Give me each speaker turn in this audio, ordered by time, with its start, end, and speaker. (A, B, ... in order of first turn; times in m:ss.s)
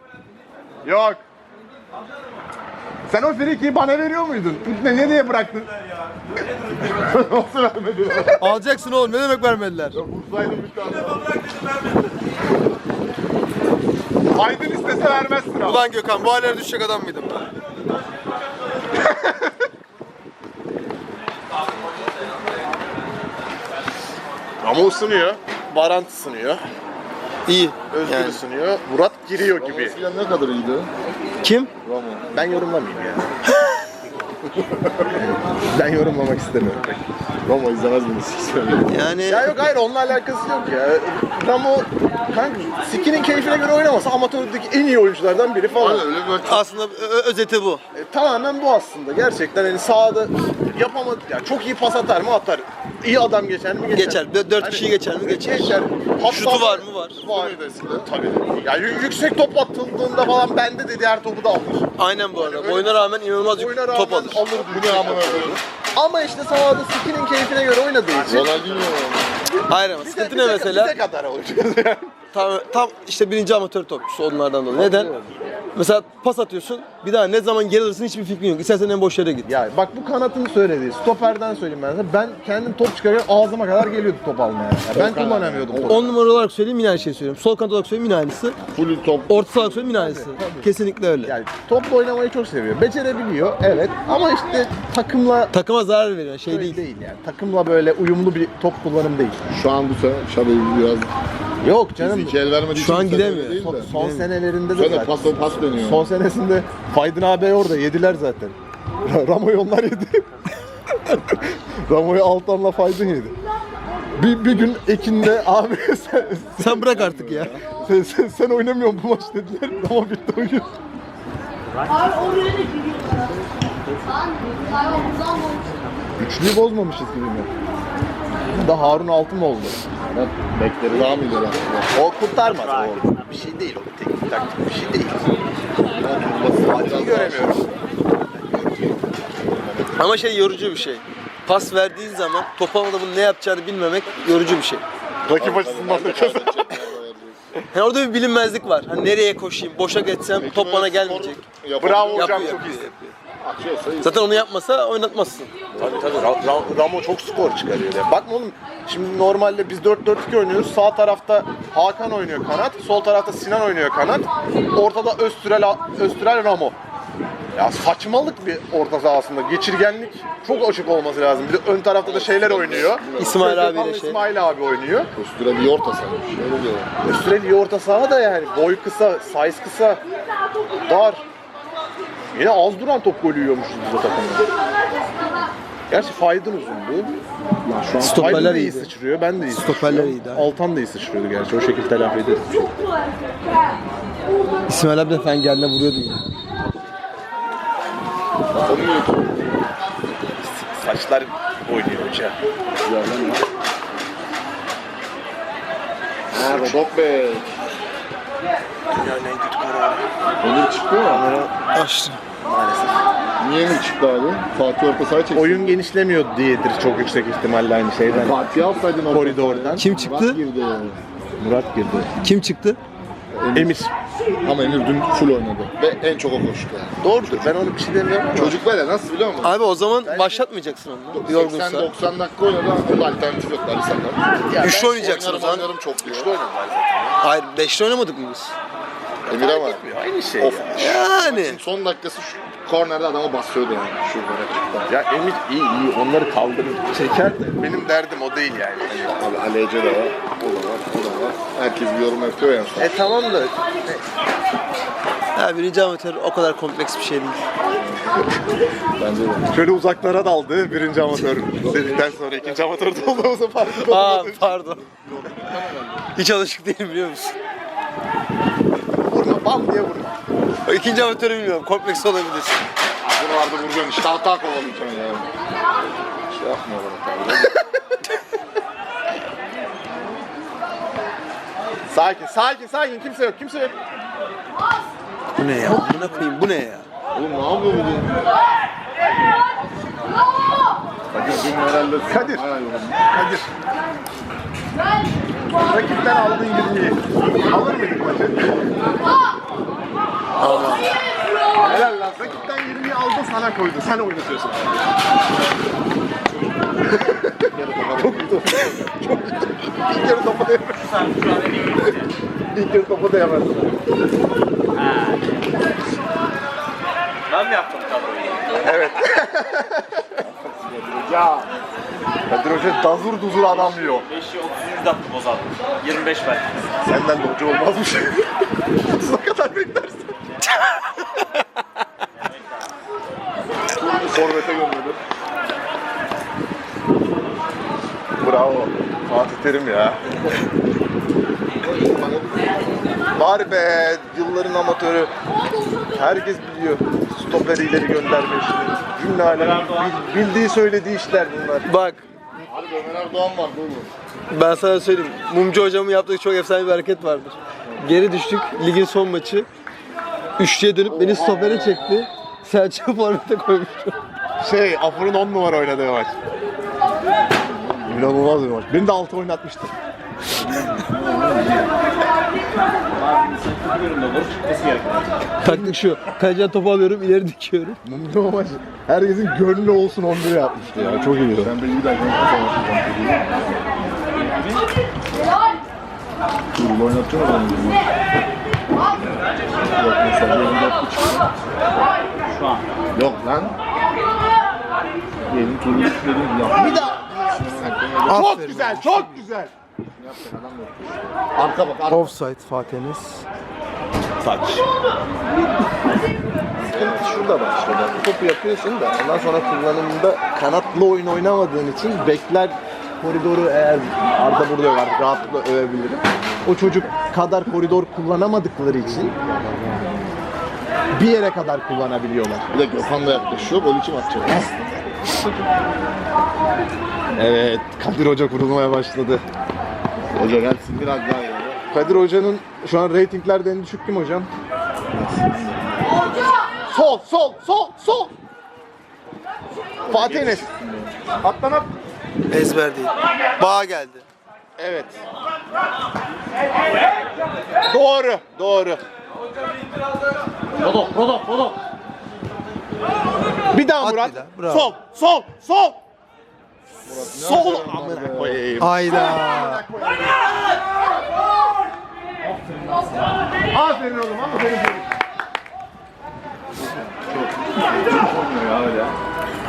0:00.8-0:01.2 A
0:03.1-0:05.7 A
0:06.7-0:08.6 B
0:08.4-0:10.0 C
0:09.9-0:11.6 B
0:14.3-0:15.8 A
0:15.6-0:17.5 C
0:24.6-0:26.6 A
0:27.5-0:28.4 C
0:27.9-0:30.0 A
0:29.5-0:30.9 B
0:31.4-0:31.7 C
0:31.8-0:32.3 B
0:32.3-0:33.3 A
0:34.6-0:35.1 B
0:35.1-0:37.0 A
0:37.4-0:39.0 B
0:38.9-0:39.5 C
0:39.2-0:46.1 A
0:45.7-0:46.7 B
0:46.4-0:47.8 C
0:47.9-1:08.8 A
0:53.9-0:57.2 C
0:57.2-0:58.1 B
1:02.0-1:04.4 C
1:04.6-1:05.6 B
1:08.2-1:09.4 B
1:09.7-1:11.0 C
1:10.0-1:12.1 A
1:12.3-1:15.1 C
1:14.7-1:15.2 B
1:14.8-1:15.1 A
1:15.7-1:19.5 C
1:19.4-1:26.2 A
1:24.9-1:26.3 B
1:25.8-1:28.6 C
1:28.6-1:29.9 B
1:29.3-1:31.3 C
1:29.8-1:35.5 A
1:35.5-1:36.8 C
1:36.5-1:39.4 A
1:39.5-1:41.1 B
1:41.6-1:42.4 A
1:42.0-1:43.9 B
1:42.7-1:44.3 C
1:43.6-1:50.2 A
1:44.7-1:46.1 B
1:51.1-1:53.3 A
1:54.2-1:56.9 A
1:56.6-1:57.6 C
1:56.8-1:57.6 B
1:57.8-2:00.7 A
2:06.2-2:07.5 A
2:08.5-2:09.8 A
2:10.0-2:10.4 B
2:10.5-2:11.2 A
2:10.9-2:11.9 B
2:11.9-2:15.2 A
2:12.7-2:13.0 B
2:15.9-2:17.6 B
2:16.6-2:17.7 A
2:18.5-2:18.9 A
2:19.6-2:19.9 B
2:19.9-2:24.8 C
2:25.2-2:26.7 A
2:25.3-2:27.4 B
2:27.7-2:31.4 C
2:30.4-2:32.6 B
2:31.8-2:32.9 A
2:32.1-2:33.1 C
2:33.4-2:34.3 B
2:34.0-2:35.5 C
2:35.7-2:36.2 B
2:35.8-2:46.8 A
2:47.5-2:55.1 A
2:52.0-2:53.5 B
2:53.2-2:54.2 C
2:55.1-2:56.9 B
2:57.0-3:00.0 A
3:00.8-3:01.2 A
3:02.3-3:04.5 A
3:05.9-3:07.2 A
3:07.6-3:08.6 B
3:08.0-3:12.7 A
3:08.0-3:08.9 C
3:09.5-3:10.5 C
3:14.7-3:16.2 C
3:18.5-3:19.5 B
3:20.4-3:22.4 A
3:22.8-3:23.4 B
3:26.3-3:26.8 A
3:26.3-3:27.5 B
3:28.9-3:30.1 A
3:30.4-3:31.3 B
3:31.1-3:31.5 A
3:31.7-3:32.2 C
3:32.4-3:33.1 A
3:33.4-3:35.8 B
3:35.3-3:38.5 A
3:38.1-3:41.0 B
3:39.0-3:39.8 A
3:39.8-3:40.4 C
3:41.4-3:42.1 A
3:42.2-3:42.8 C
3:43.4-3:43.7 B
3:43.5-3:43.9 A
3:44.4-3:47.5 B
3:47.0-3:48.6 A
3:48.3-3:49.6 B
3:49.4-3:51.9 C
3:50.0-3:50.5 A
3:51.1-3:56.3 B
3:54.5-3:55.4 A
3:54.6-3:55.7 C
3:56.0-3:57.2 A
3:57.2-3:58.5 C
3:59.3-4:01.0 A
3:59.3-4:04.9 B
4:00.8-4:01.6 C
4:04.9-4:09.3 A
4:09.1-4:12.9 B
4:12.8-4:14.0 A
4:15.3-4:17.4 C
4:17.8-4:18.2 B
4:19.0-4:19.5 B
4:19.5-4:24.6 A
4:23.8-4:24.8 C
4:24.8-4:26.1 B
4:26.2-4:27.3 C
4:29.0-4:30.2 A
4:30.6-4:32.6 C
4:33.0-4:35.3 B
4:36.3-4:37.5 B
4:41.9-4:43.7 A
4:45.4-4:45.8 A
4:45.4-4:46.8 C
4:47.1-4:48.2 B
4:51.1-4:53.0 B
4:52.1-4:52.5 A
4:53.1-4:53.5 A
4:55.6-4:58.8 A
5:00.4-5:00.9 B
5:01.6-5:04.8 A
5:01.8-5:02.5 B
5:06.9-5:11.0 A
5:07.5-5:08.5 B
5:10.9-5:12.1 D
5:12.5-5:13.8 A
5:14.8-5:15.2 D
5:17.3-5:18.7 D
5:18.6-5:20.2 A
5:20.2-5:21.4 B
5:22.3-5:24.1 A
5:24.0-5:26.7 D
5:26.8-5:28.3 A
5:28.9-5:30.1 A
5:33.7-5:35.0 B
5:38.2-5:40.0 A
5:41.6-5:42.9 B
5:43.1-5:45.1 A
5:45.9-5:51.7 A
5:49.3-5:49.9 D
5:51.6-5:52.0 C
5:52.4-5:53.9 B
5:54.3-5:59.5 C
5:57.6-5:57.9 B
6:00.4-6:04.0 C
6:00.8-6:01.7 B
6:04.4-6:06.1 A
6:07.5-6:08.1 B
6:07.9-6:09.7 A
6:10.5-6:11.7 B
6:12.9-6:15.3 D
6:15.4-6:17.8 C
6:17.8-6:21.5 A
6:20.7-6:23.8 B
6:24.1-6:24.6 D
6:26.5-6:27.9 B
6:29.6-6:31.3 B
6:32.3-6:32.6 D
6:32.9-6:33.6 B
6:35.3-6:38.3 B
6:36.5-6:39.5 A
6:38.1-6:39.3 C
6:40.0-6:42.1 B
6:41.9-6:43.2 C
6:44.2-6:44.6 A
6:46.6-6:59.2 A
6:46.6-6:47.2 B
7:00.9-7:02.5 A
7:02.5-7:04.5 B
7:04.3-7:04.6 A
7:07.2-7:09.2 A
7:10.1-7:11.6 B
7:11.7-7:14.3 A
7:14.9-7:16.1 B
7:16.7-7:18.1 A
7:19.8-7:21.0 B
7:19.9-7:20.5 A
7:21.2-7:21.7 A
7:22.3-7:24.0 C
7:24.6-7:25.0 A
7:27.7-7:28.8 A
7:30.6-7:31.5 A
7:33.5-7:35.8 A
7:33.8-7:34.7 C
7:36.8-7:38.6 B
7:37.1-7:40.2 A
7:38.6-7:39.6 C
7:42.5-7:43.1 D
7:43.5-7:44.9 A
7:46.9-7:47.2 B
7:48.5-7:48.8 A